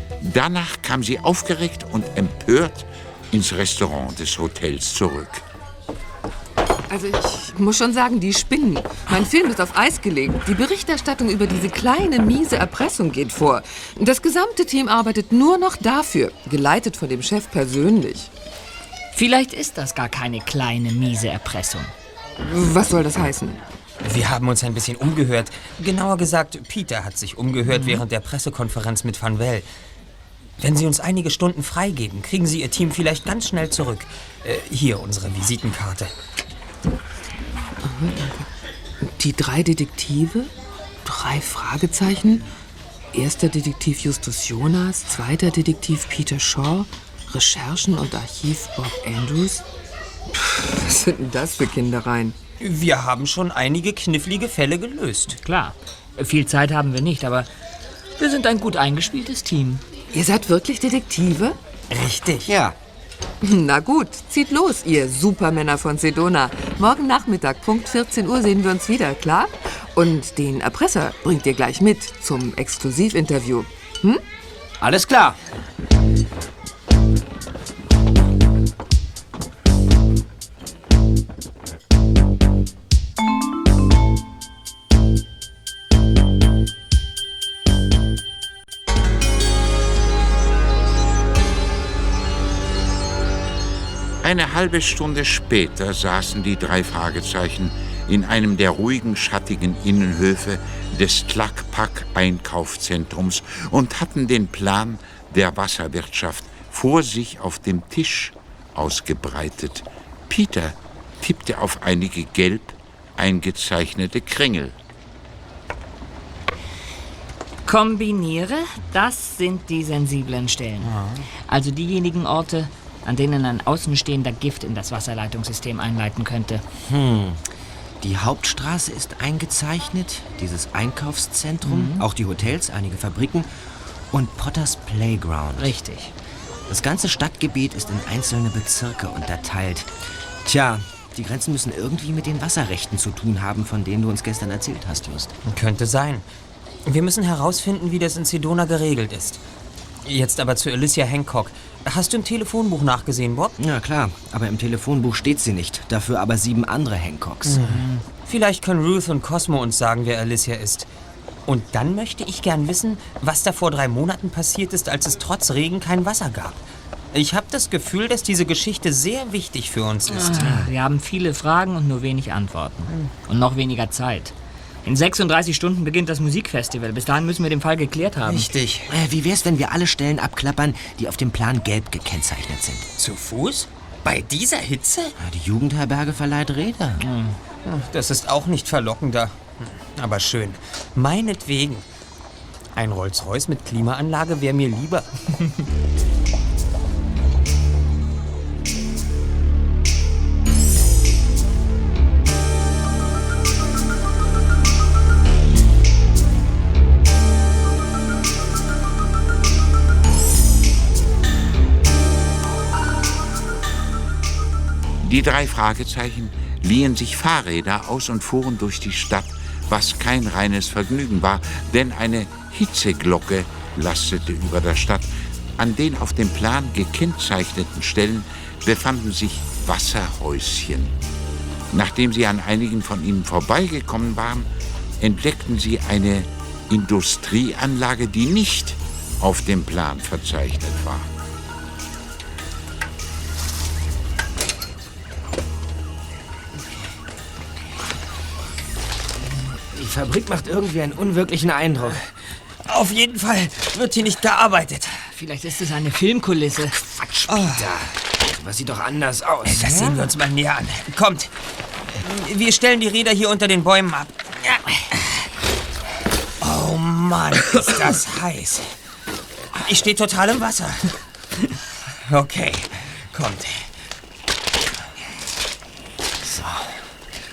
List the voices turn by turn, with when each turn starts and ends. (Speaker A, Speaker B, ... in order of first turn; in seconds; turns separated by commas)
Speaker A: 0.2-5.4, Speaker B: 6.9-18.3, Speaker C: 19.1-21.9, Speaker B: 22.4-23.6, Speaker D: 24.0-29.6, Speaker C: 27.7-28.0, Speaker D: 30.6-36.1, Speaker B: 37.8-38.5, Speaker B: 39.0-40.5, Speaker B: 41.0-42.4, Speaker B: 43.1-49.6, Speaker B: 50.3-52.3, Speaker D: 52.6-55.4, Speaker C: 55.4-57.5, Speaker C: 58.2-59.8, Speaker B: 60.1-61.5, Speaker D: 61.9-62.5, Speaker E: 62.5-62.7, Speaker B: 63.4-74.2, Speaker E: 74.8-75.4, Speaker A: 94.2-114.8, Speaker C: 117.7-120.9, Speaker C: 121.5-126.6, Speaker E: 126.9-127.4, Speaker E: 128.0-133.5, Speaker C: 131.6-132.0, Speaker E: 134.1-135.7, Speaker C: 135.6-136.1, Speaker E: 136.7-139.9, Speaker E: 140.4-145.3, Speaker D: 145.4-146.2, Speaker D: 146.8-149.4, Speaker D: 150.0-153.6, Speaker E: 153.6-157.9, Speaker D: 157.4-160.9, Speaker D: 161.5-166.6, Speaker D: 167.1-170.6, Speaker C: 170.1-174.3, Speaker E: 170.3-170.7, Speaker C: 174.8-178.5, Speaker D: 178.2-178.9, Speaker E: 178.9-182.8, Speaker D: 183.0-185.1, Speaker E: 185.2-187.0, Speaker C: 187.0-187.4, Speaker D: 187.6-191.8, Speaker D: 192.7-195.1, Speaker A: 215.0-230.9, Speaker A: 231.7-234.5, Speaker A: 235.0-241.1, Speaker E: 249.7-252.0, Speaker D: 252.7-255.0, Speaker C: 255.1-256.9, Speaker E: 256.9-260.0, Speaker D: 257.3-257.6, Speaker D: 259.5-261.3, Speaker D: 262.0-264.6, Speaker D: 266.4-268.7, Speaker D: 269.6-271.0, Speaker D: 272.0-273.7, Speaker E: 276.2-276.7